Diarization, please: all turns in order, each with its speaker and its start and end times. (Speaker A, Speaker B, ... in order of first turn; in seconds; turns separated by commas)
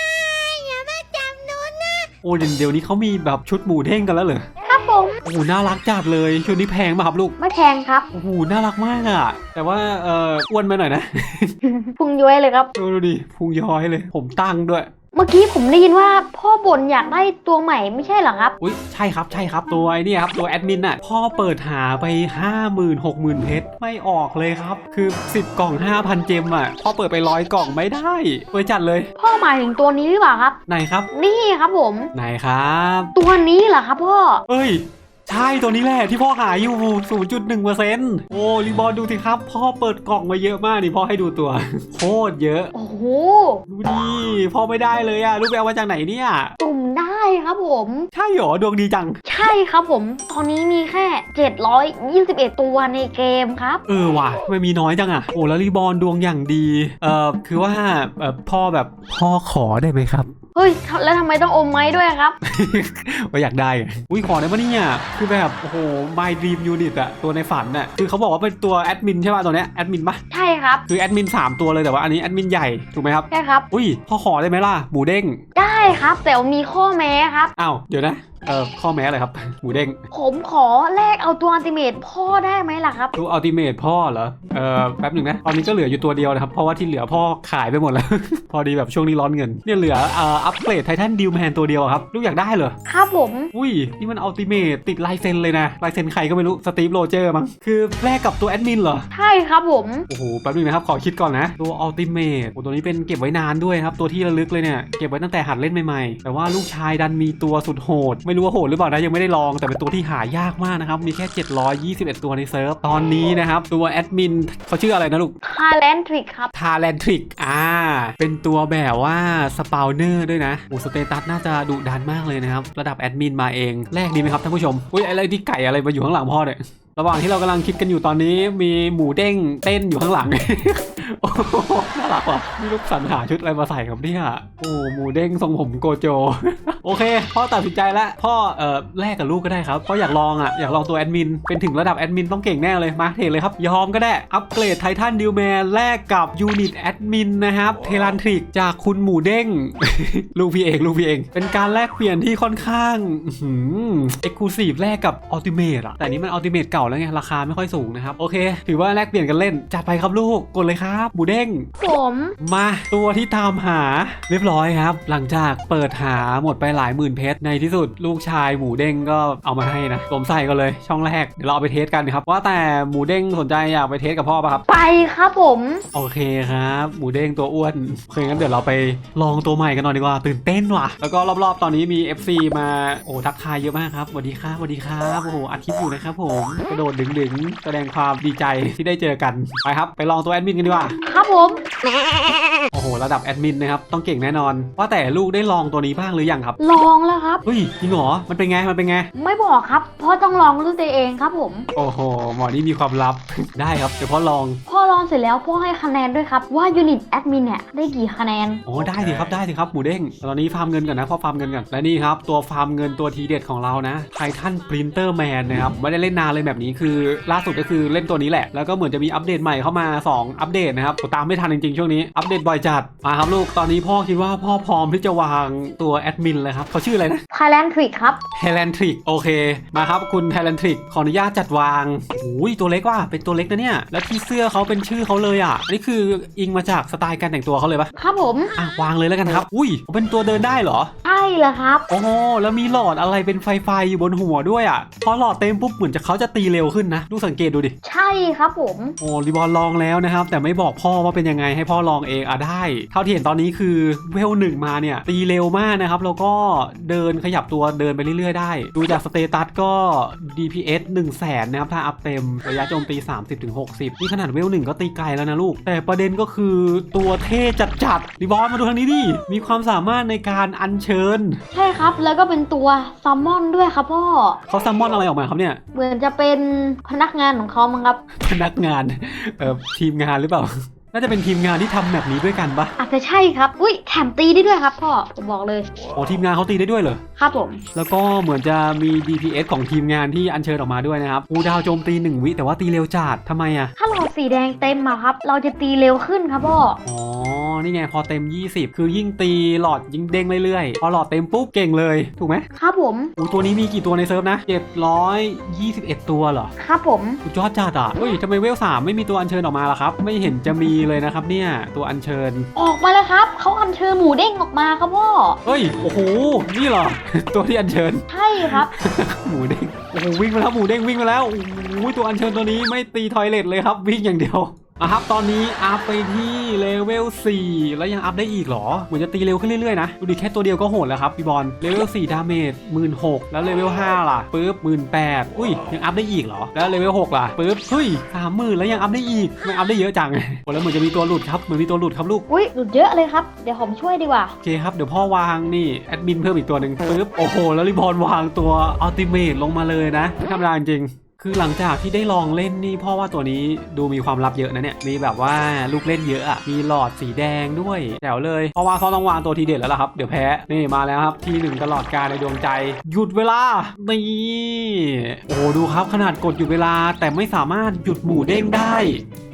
Speaker A: 0.3-2.1, Speaker B: 2.2-4.5, Speaker A: 4.7-5.2, Speaker B: 5.2-7.3, Speaker A: 7.4-8.1, Speaker B: 8.1-11.6, Speaker A: 11.6-12.7, Speaker B: 12.8-14.9, Speaker A: 15.1-18.6, Speaker B: 18.6-29.1, Speaker A: 29.2-30.6, Speaker B: 30.7-31.1, Speaker A: 31.1-32.1, Speaker B: 32.1-33.1, Speaker A: 33.2-34.4, Speaker B: 34.5-42.7, Speaker A: 42.7-43.6, Speaker B: 43.7-46.5, Speaker A: 46.6-48.1, Speaker B: 48.1-49.2, Speaker A: 49.2-53.8, Speaker B: 53.9-60.3, Speaker A: 60.6-62.4, Speaker B: 62.4-70.2, Speaker A: 70.3-70.8, Speaker B: 70.9-75.4, Speaker A: 73.3-73.7, Speaker A: 75.6-77.5, Speaker B: 77.6-80.0, Speaker A: 80.1-83.2, Speaker B: 83.2-92.8, Speaker A: 92.8-93.5, Speaker B: 93.5-99.1, Speaker A: 99.1-100.1, Speaker B: 100.1-115.3, Speaker A: 115.4-116.5, Speaker B: 116.5-161.7, Speaker A: 161.8-162.4, Speaker B: 162.4-174.7, Speaker A: 174.7-175.8, Speaker B: 175.9-191.0, Speaker A: 191.0-191.7, Speaker B: 192.7-196.6, Speaker A: 196.6-197.4, Speaker B: 197.4-199.1, Speaker A: 199.1-201.7, Speaker B: 201.8-204.6, Speaker A: 204.7-208.6, Speaker B: 208.7-227.2, Speaker A: 227.3-228.2, Speaker B: 228.3-237.9, Speaker A: 237.9-238.6, Speaker B: 238.6-240.9, Speaker A: 241.1-241.9, Speaker B: 241.9-247.7, Speaker A: 247.8-249.0, Speaker B: 249.0-271.4, Speaker A: 271.5-274.4, Speaker B: 274.5-275.6, Speaker A: 275.7-278.0, Speaker B: 278.2-282.7, Speaker A: 282.8-285.7, Speaker B: 285.9-287.0, Speaker A: 287.2-287.6, Speaker B: 287.8-293.7, Speaker A: 293.8-296.8, Speaker B: 296.9-302.5, Speaker A: 302.6-303.1, Speaker B: 303.2-306.5, Speaker A: 306.6-307.2, Speaker B: 307.2-312.5, Speaker A: 312.6-315.4, Speaker B: 315.4-342.2, Speaker A: 318.1-318.7, Speaker A: 342.3-344.4, Speaker B: 344.4-369.0